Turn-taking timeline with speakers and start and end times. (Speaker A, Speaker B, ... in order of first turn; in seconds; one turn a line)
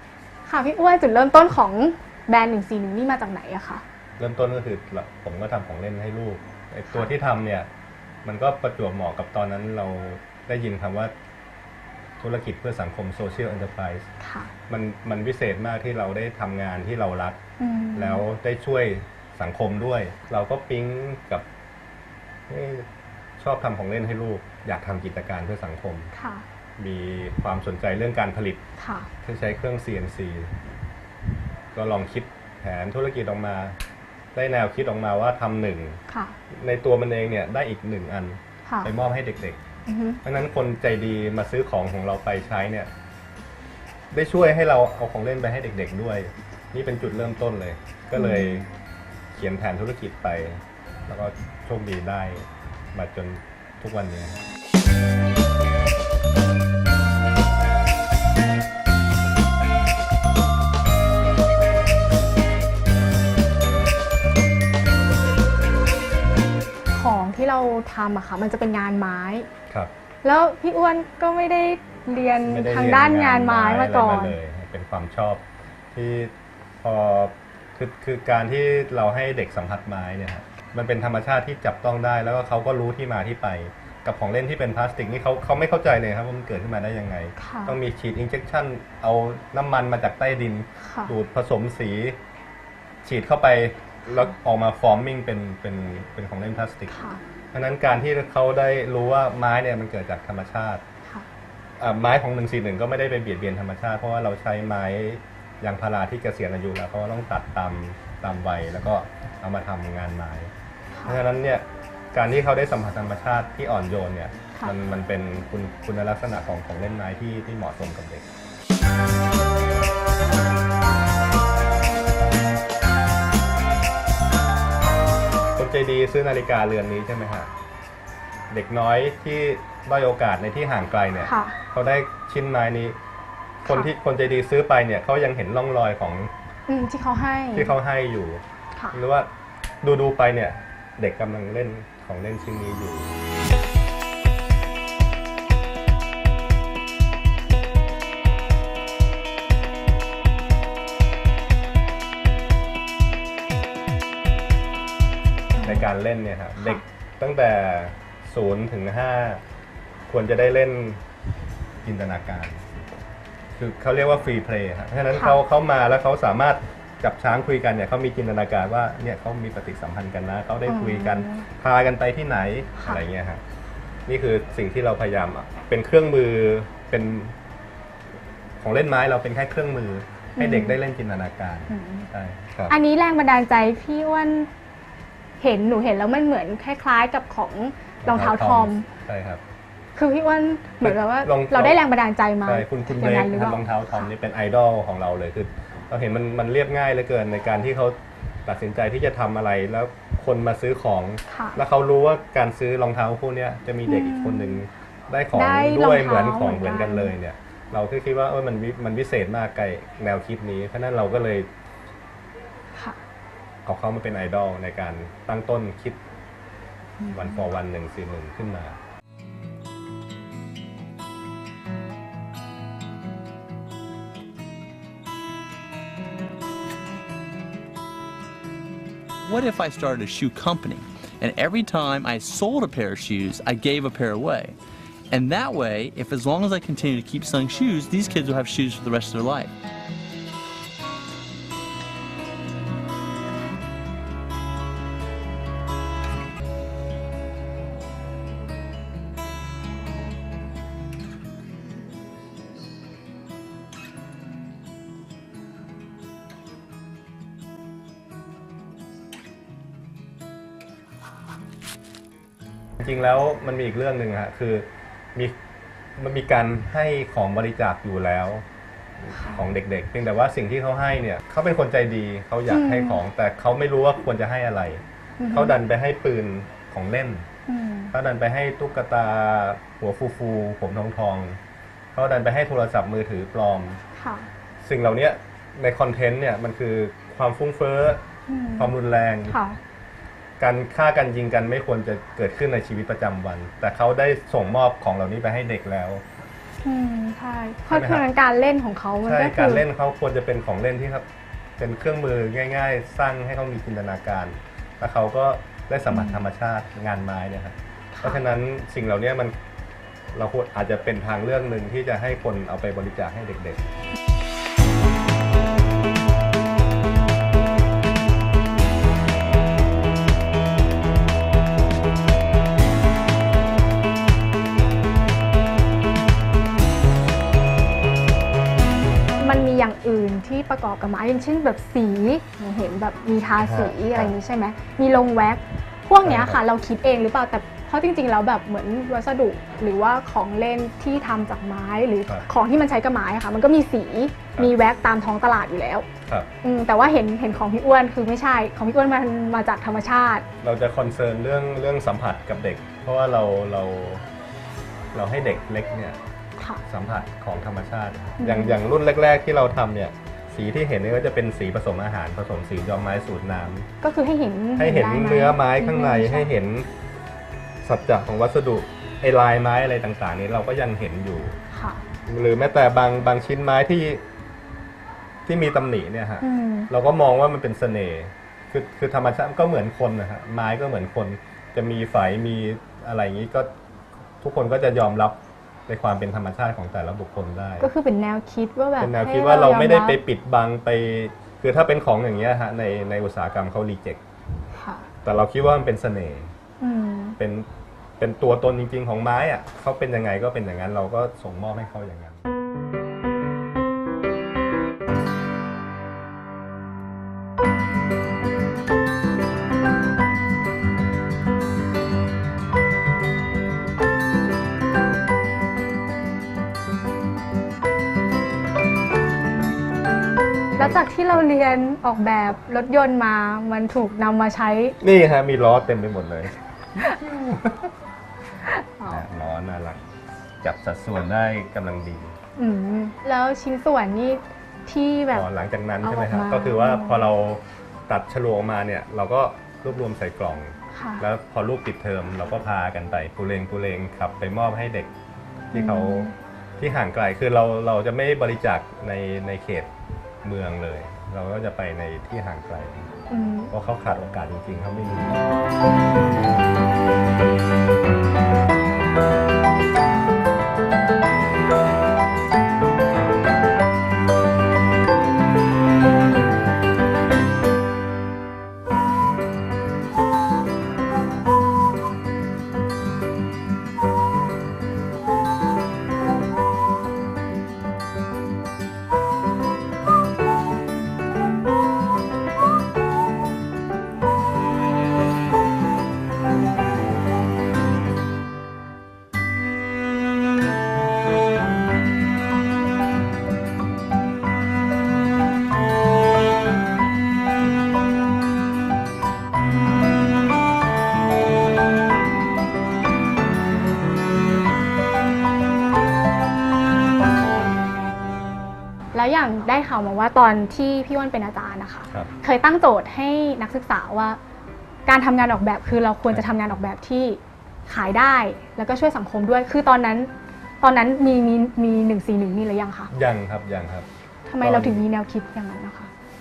Speaker A: 0.5-3.8
Speaker B: 4.2-7.7
Speaker B: 8.2-11.1
Speaker B: 12.2-14.1
Speaker A: 14.2-14.5
Speaker B: 14.7-17.4
Speaker A: 17.6-18.3
Speaker B: 17.9-21.5
Speaker B: 22.5-22.9
Speaker B: 23.4-26.1
Speaker A: 26.1-26.4
Speaker B: 26.8-28.6
Speaker A: 28.8-29.1
Speaker B: 29.2-30.5
Speaker B: 31.7-33.8
Speaker B: 34.4-36.0
Speaker A: 36.1-36.4
Speaker B: 36.5-39.6
Speaker A: 38.7-38.9
Speaker A: 39.9-40.2
Speaker B: 40.2-42.9
Speaker B: 44.1-48.7
Speaker A: 48.1-48.6
Speaker B: 49.4-54.4
Speaker A: 66.9-69.5
Speaker A: 70.2-74.3
Speaker B: 72.4-92.2
Speaker A: 87.4-87.8
Speaker A: 90.8-91.1
Speaker B: 93.0-96.9
Speaker A: 96.9-97.2
Speaker B: 97.5-100.8
Speaker B: 101.8-110.5
Speaker A: 110.9-111.2
Speaker B: 111.0-118.3
Speaker B: 125.6-127.5
Speaker B: 128.5-132.9
Speaker A: 131.2-131.6
Speaker B: 133.6-136.3
Speaker A: 136.7-137.7
Speaker B: 137.5-139.3
Speaker B: 139.8-143.2
Speaker A: 155.6-155.9
Speaker B: 155.6-159.4
Speaker A: 156.6-156.8
Speaker B: 160.1-161.0
Speaker B: 161.8-162.6
Speaker B: 163.6-173.4
Speaker A: 165.1-165.4
Speaker A: 170.7-171.4
Speaker B: 174.1-177.3
Speaker B: 178.6-182.8
Speaker A: 180.4-180.8
Speaker A: 181.7-182.1
Speaker A: 182.7-184.5
Speaker A: 185.4-188.9
Speaker B: 188.0-189.4
Speaker A: 189.9-194.1
Speaker B: 190.8-191.8
Speaker B: 192.4-211.5
Speaker A: 201.3-201.6
Speaker A: 203.9-204.6
Speaker A: 205.3-207.1
Speaker B: 213.7-216.0
Speaker A: 217.0-217.5
Speaker B: 217.1-218.8
Speaker C: 229.2-234.6
Speaker C: 235.1-239.6
Speaker B: 262.8-265.4
Speaker B: 266.0-268.4
Speaker B: 269.0-277.3
Speaker A: 269.1-269.4
Speaker A: 272.5-273.0
Speaker A: 275.2-275.6
Speaker A: 277.5-277.9
Speaker B: 277.9-281.4
Speaker B: 281.9-283.8
Speaker A: 284.0-284.3
Speaker B: 284.6-288.0
Speaker A: 288.3-288.7
Speaker B: 288.6-289.4
Speaker A: 289.3-289.6
Speaker B: 290.4-296.0
Speaker A: 296.6-299.6
Speaker B: 297.7-298.1
Speaker B: 299.1-301.1
Speaker B: 301.6-309.3
Speaker A: 305.9-306.2
Speaker A: 307.9-308.2
Speaker B: 310.1-313.6
Speaker A: 329.2-345.9
Speaker B: 333.4-334.1
Speaker B: 336.0-336.4
Speaker A: 346.4-350.2
Speaker B: 350.4-354.0
Speaker B: 354.9-356.0
Speaker A: 356.4-356.6
Speaker B: 356.7-363.7
Speaker A: 358.2-358.6
Speaker A: 363.8-366.3
Speaker B: 364.6-366.7
Speaker B: 367.6-371.4
Speaker A: 371.5-371.8
Speaker B: 372.1-374.0
Speaker B: 375.3-383.5
Speaker A: 376.2-376.7
Speaker B: 384.2-387.7
Speaker A: 387.6-390.0
Speaker B: 388.8-394.0
Speaker A: 394.5-394.9
Speaker B: 395.0-396.3
Speaker A: 396.6-397.2
Speaker B: 397.2-397.5
Speaker B: 398.0-402.2
Speaker A: 420.6-424.8
Speaker B: 424.8-427.7
Speaker A: 428.4-429.1
Speaker B: 428.9-429.8
Speaker B: 430.4-432.2
Speaker A: 432.4-435.3
Speaker B: 435.1-444.9
Speaker A: 435.8-437.1
Speaker A: 440.7-441.1
Speaker B: 445.5-449.7
Speaker A: 445.5-446.1
Speaker B: 450.2-452.9
Speaker A: 453.1-453.5
Speaker B: 453.5-455.2
Speaker A: 508.9-514.2
Speaker A: 514.9-522.9
Speaker B: 516.1-516.6
Speaker B: 522.9-523.9
Speaker A: 524.3-525.9
Speaker B: 524.4-524.9